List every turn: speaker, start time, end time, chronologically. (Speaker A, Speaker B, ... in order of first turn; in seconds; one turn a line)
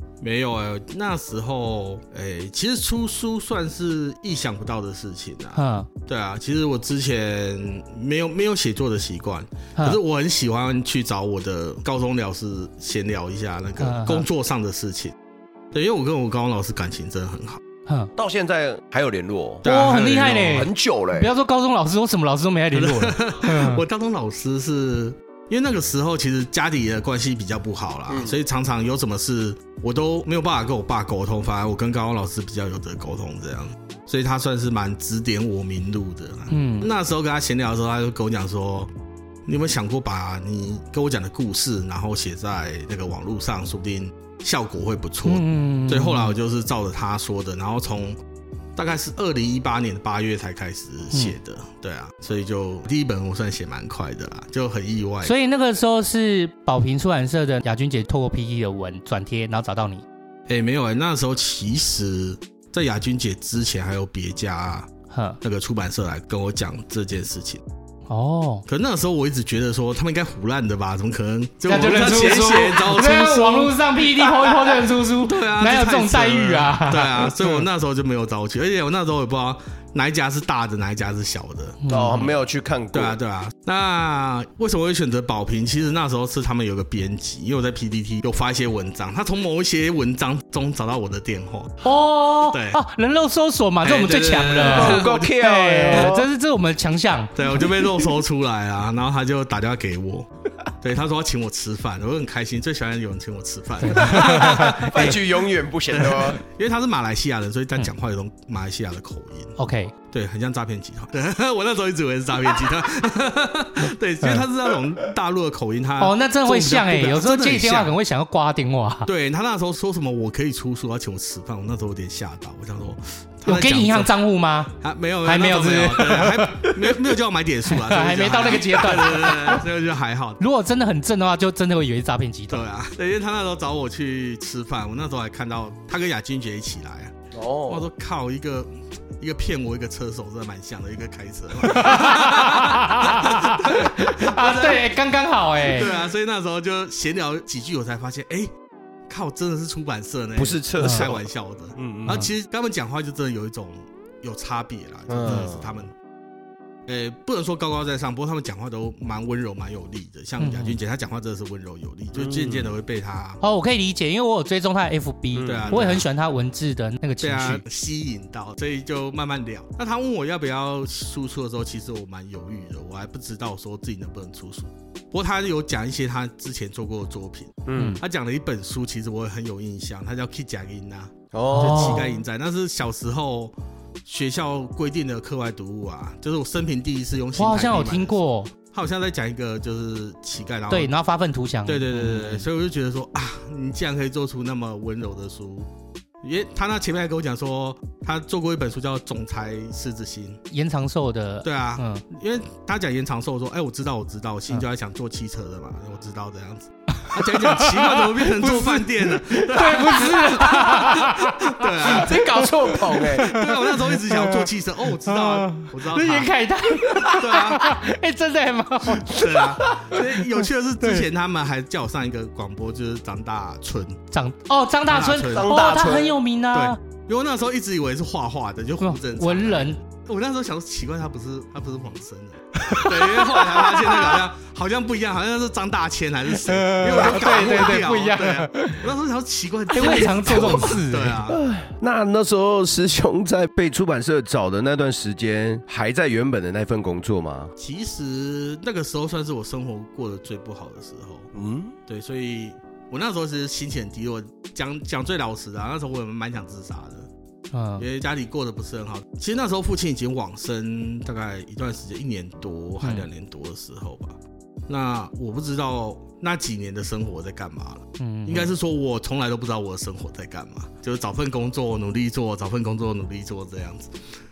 Speaker A: 0.2-15.1
Speaker B: 5.5-5.9
Speaker B: 13.8-14.2
Speaker A: 15.7-17.6
Speaker B: 17.9-18.1
Speaker C: 18.1-19.6
Speaker A: 19.6-20.6
Speaker B: 19.6-23.8
Speaker C: 20.4-21.3
Speaker A: 22.7-38.9
Speaker C: 28.1-28.4
Speaker B: 36.5-36.9
Speaker A: 39.5-48.2
Speaker B: 45.2-46.4
Speaker A: 48.8-55.3
Speaker B: 55.2-60.0
Speaker A: 60.5-64.9
Speaker B: 65.1-65.4
Speaker A: 65.4-67.6
Speaker B: 68.1-68.6
Speaker A: 68.7-73.7
Speaker B: 71.7-77.6
Speaker A: 75.2-81.8
Speaker B: 81.8-82.3
Speaker C: 81.9-83.2
Speaker A: 82.9-91.8
Speaker B: 91.8-97.3
Speaker A: 92.5-92.8
Speaker A: 93.8-95.2
Speaker C: 94.6-96.3
Speaker A: 97.3-100.3
Speaker A: 100.8-105.3
Speaker B: 103.8-104.9
Speaker C: 103.9-106.4
Speaker A: 105.9-109.5
Speaker B: 109.6-109.9
Speaker A: 110.1-117.9
Speaker B: 116.0-119.1
Speaker A: 119.0-124.2
Speaker B: 123.5-124.7
Speaker A: 124.8-130.4
Speaker B: 125.2-127.0
Speaker B: 127.7-129.6
Speaker B: 130.4-132.6
Speaker A: 132.5-137.1
Speaker C: 137.3-137.9
Speaker A: 137.7-144.9
Speaker B: 141.6-145.9
Speaker A: 145.7-148.5
Speaker A: 149.1-155.9
Speaker C: 150.3-151.2
Speaker B: 150.8-151.1
Speaker C: 151.8-152.3
Speaker C: 155.1-155.8
Speaker A: 156.9-163.4
Speaker B: 160.4-160.8
Speaker C: 162.1-162.7
Speaker B: 163.4-167.6
Speaker C: 165.3-166.0
Speaker A: 165.4-166.1
Speaker A: 167.2-188.2
Speaker C: 177.7-178.0
Speaker B: 177.7-178.0
Speaker C: 181.3-182.1
Speaker B: 181.5-182.2
Speaker B: 187.3-188.5
Speaker A: 188.7-190.9
Speaker B: 190.7-192.5
Speaker A: 191.7-195.7
Speaker A: 196.2-200.4
Speaker B: 200.5-202.0
Speaker A: 201.4-216.3
Speaker B: 207.1-214.4
Speaker C: 211.8-213.3
Speaker B: 215.0-220.2
Speaker A: 217.0-217.8
Speaker A: 218.9-224.0
Speaker B: 224.1-226.8
Speaker A: 224.9-225.6
Speaker C: 225.2-226.2
Speaker A: 226.5-241.4
Speaker B: 228.8-229.8
Speaker B: 232.7-234.2
Speaker B: 236.4-238.8
Speaker B: 239.7-241.2
Speaker C: 240.3-240.7
Speaker C: 241.2-247.5
Speaker A: 247.6-251.3
Speaker C: 251.3-251.8
Speaker A: 251.9-257.1
Speaker B: 257.5-257.8
Speaker A: 257.8-264.2
Speaker B: 262.8-263.1
Speaker A: 264.7-273.9
Speaker B: 268.0-268.5